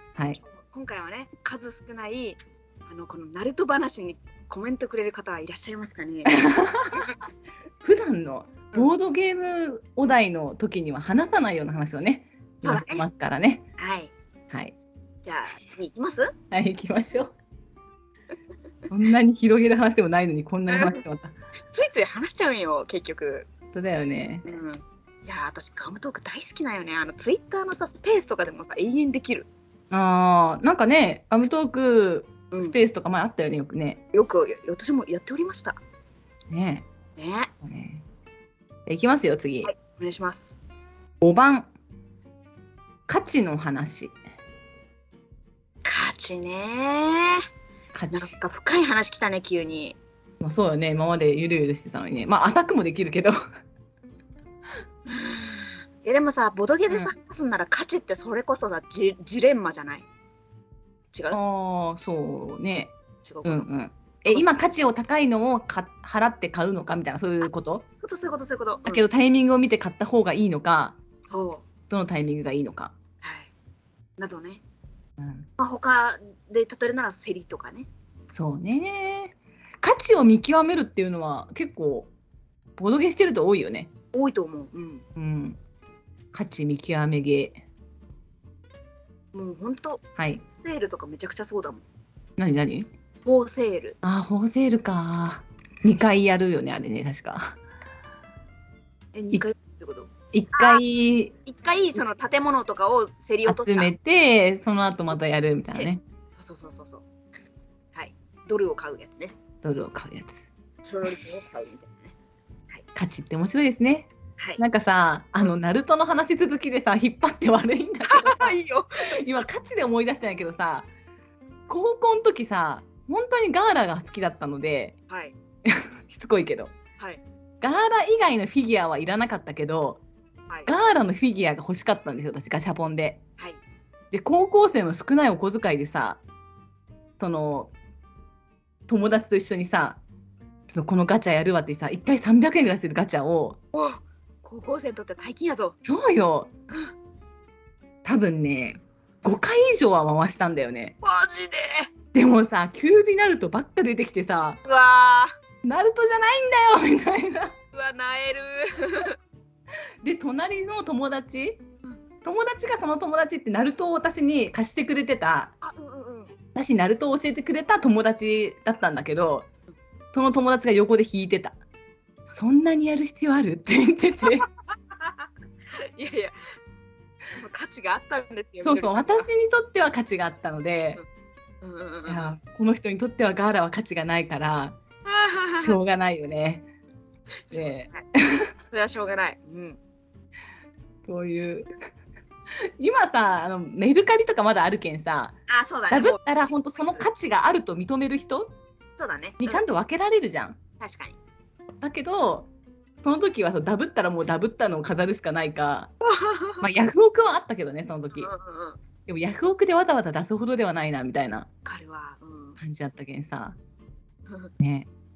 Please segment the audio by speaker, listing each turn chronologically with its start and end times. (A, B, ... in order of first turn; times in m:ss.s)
0:00.4-0:07.2 A
0:06.2-0:07.1 B
0:07.8-0:13.6 B
0:12.6-0:13.0 A
0:13.8-0:14.1 A
0:14.5-0:14.7 B
0:15.2-0:16.3 A
0:16.5-0:17.3 B
0:18.9-0:21.3 B
0:20.7-0:21.0 A
0:21.7-0:23.5 A
0:23.7-0:24.4 B
0:24.4-0:29.5 A
0:29.9-0:34.0 B
0:34.1-0:35.8 A
0:36.5-0:36.8 B
0:37.2-0:37.5 A
0:37.6-0:38.0 B
0:38.8-0:39.7 B
0:39.6-0:40.6 A
0:41.2-0:41.7 B
0:43.1-0:44.1 B
0:45.8-0:47.4 A
0:47.9-0:48.3 B
0:48.1-0:50.0 A
0:50.4-0:53.3 B
0:55.1-1:00.1 A
1:01.1-1:01.4 A
1:01.3-1:02.9 B
1:03.2-1:03.7 A
1:03.4-1:07.8 B
1:04.3-1:04.6 A
1:08.0-1:09.0 A
1:08.9-1:11.0 B
1:11.3-1:11.6 A
1:11.9-1:12.9 B
1:13.2-1:13.5 A
1:14.2-1:14.6 A
1:15.2-1:15.5 B
1:15.6-1:17.9 A
1:18.3-1:22.1 B
1:22.8-1:23.9 B
1:24.1-1:25.0 A
1:25.2-1:25.6 B
1:26.3-1:27.5 B
1:29.3-1:30.0 A
1:30.2-1:30.4 B
1:30.6-1:31.8 A
1:32.4-1:32.9 B
1:33.2-1:34.0 A
1:34.0-1:37.5 B
1:39.1-1:40.8 A
1:40.3-1:41.3 B
1:41.4-1:43.9 A
1:43.4-1:46.0 B
1:45.7-1:47.0 A
1:47.9-1:49.3 A
1:49.6-1:50.5 B
1:50.8-1:52.1 A
1:52.9-2:00.9 B
1:58.0-1:59.2 A
2:01.7-2:04.9 B
2:05.1-2:05.3 A
2:05.6-2:06.7 B
2:07.6-2:10.0 B
2:10.6-2:13.2 B
2:14.1-2:16.2 B
2:17.2-2:17.7 B
2:18.9-2:20.0 B
2:20.7-2:23.6 B
2:23.7-2:25.8 A
2:25.8-2:26.5 B
2:28.0-2:30.9 B
2:31.0-2:31.9 A
2:32.1-2:34.6 B
2:34.6-2:35.3 A
2:35.6-2:37.6 B
2:37.7-2:39.2 A
2:40.0-2:41.6 B
2:42.2-2:45.5 B
2:45.6-2:46.3 A
2:46.5-2:49.5 B
2:50.1-2:51.6 B
2:52.3-2:54.5 B
2:55.8-2:56.4 A
2:57.4-2:59.3 A
2:58.6-3:01.0 B
3:01.6-3:02.3 A
3:02.1-3:04.8 B
3:05.0-3:05.8 A
3:05.5-3:06.6 B
3:07.5-3:08.0 A
3:07.5-3:08.5 B
3:08.7-3:09.8 A
3:11.0-3:11.7 B
3:12.6-3:15.3 B
3:15.5-3:16.2 A
3:15.9-3:18.5 B
3:16.8-3:17.0 A
3:19.0-3:19.6 A
3:19.4-3:20.6 B
3:20.8-3:21.2 A
3:21.8-3:22.5 B
3:23.0-3:25.9 B
3:26.0-3:26.7 A
3:26.6-3:28.3 B
3:28.1-3:28.8 A
3:29.1-3:31.5 B
3:31.6-3:32.6 A
3:32.6-3:33.6 B
3:34.6-3:34.9 B